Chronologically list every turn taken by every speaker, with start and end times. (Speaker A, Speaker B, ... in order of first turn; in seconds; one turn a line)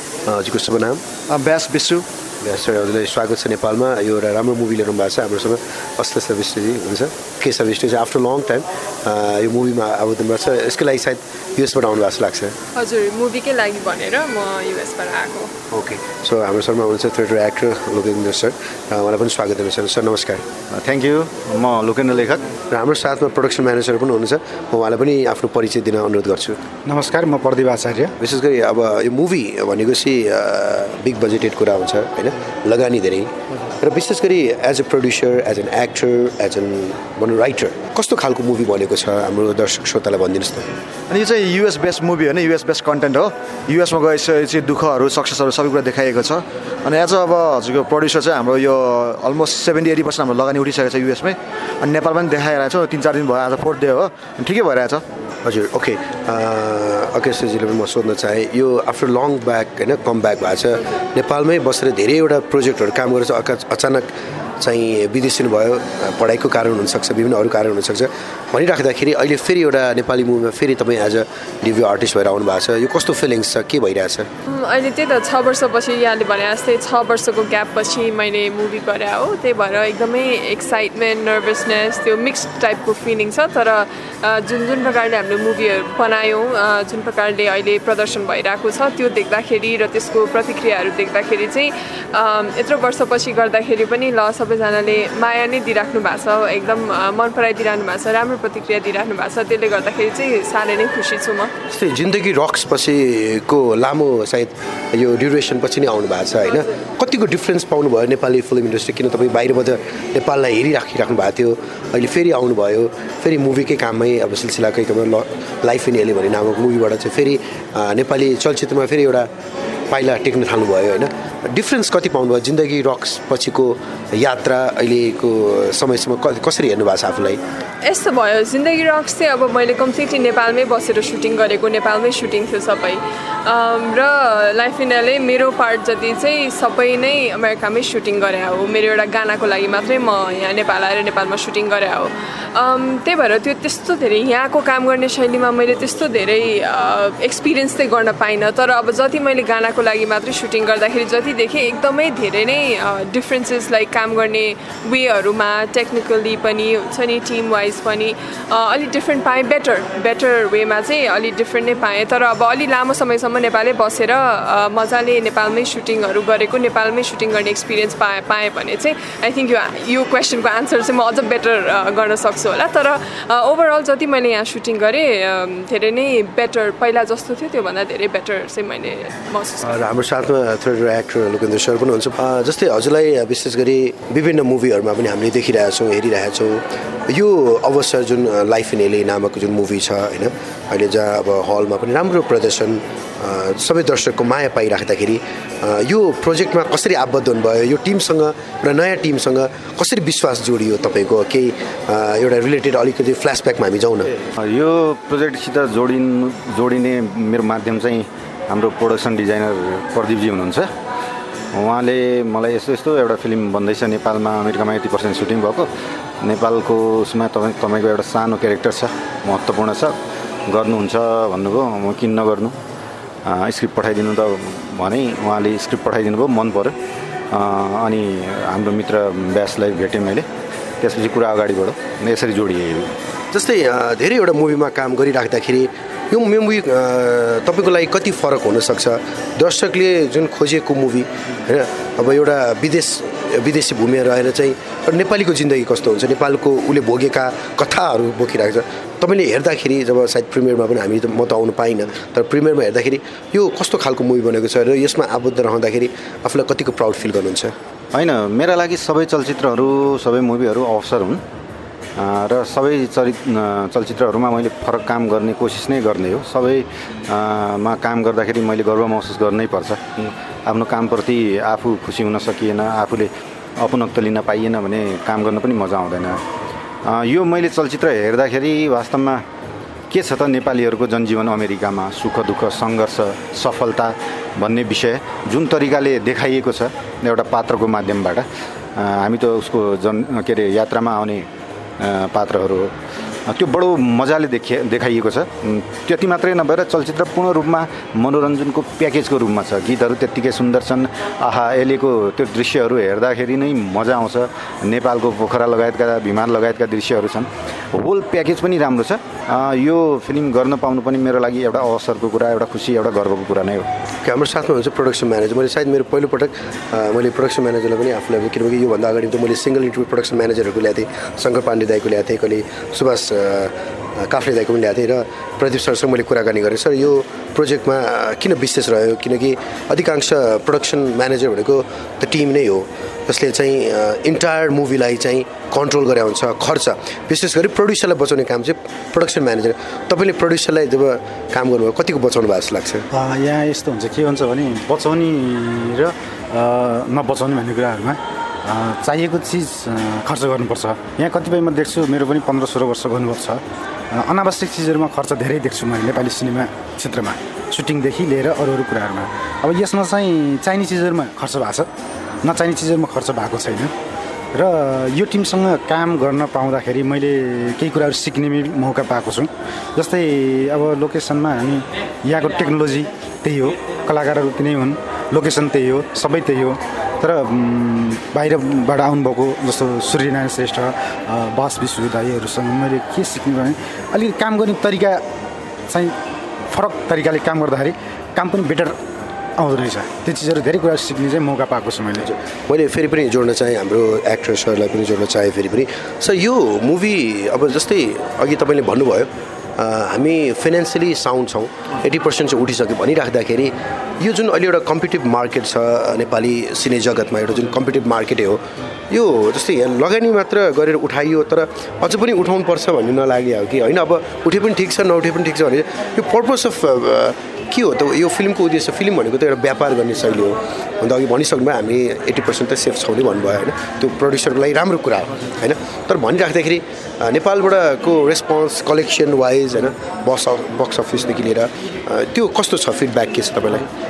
Speaker A: 0.3-1.0
Speaker B: 1.3-2.0
Speaker A: 2.4-12.5
Speaker C: 12.7-15.5
Speaker A: 15.7-20.4
Speaker D: 20.8-22.2
Speaker A: 22.7-26.6
Speaker E: 26.9-28.1
Speaker A: 28.2-40.7
Speaker B: 41.1-55.0
Speaker A: 55.5-74.3
Speaker C: 74.5-101.5
Speaker A: 101.7-119.3
Speaker A: 119.9-127.4
Speaker C: 127.8-179.8
Speaker A: 179.7-204.1
Speaker D: 204.4-210.7
Speaker D: 211.5-215.7
Speaker D: 216.2-219.9
Speaker D: 220.5-222.6
Speaker D: 223.3-226.8
Speaker D: 227.3-230.3
Speaker D: 230.8-232.9
Speaker A: 233.3-257.5
Speaker D: 257.9-261.2
Speaker D: 262.0-269.8
Speaker D: 270.5-276.2
Speaker D: 276.9-279.2
Speaker D: 279.9-291.3
Speaker D: 291.8-292.7
Speaker D: 293.3-313.7
Speaker A: 314.0-342.9
Speaker E: 342.9-361.7
Speaker E: 362.2-363.7
Speaker E: 364.3-385.0
Speaker E: 385.7-386.0
Speaker E: 386.5-388.8
Speaker E: 389.4-392.1
Speaker A: 392.0-433.7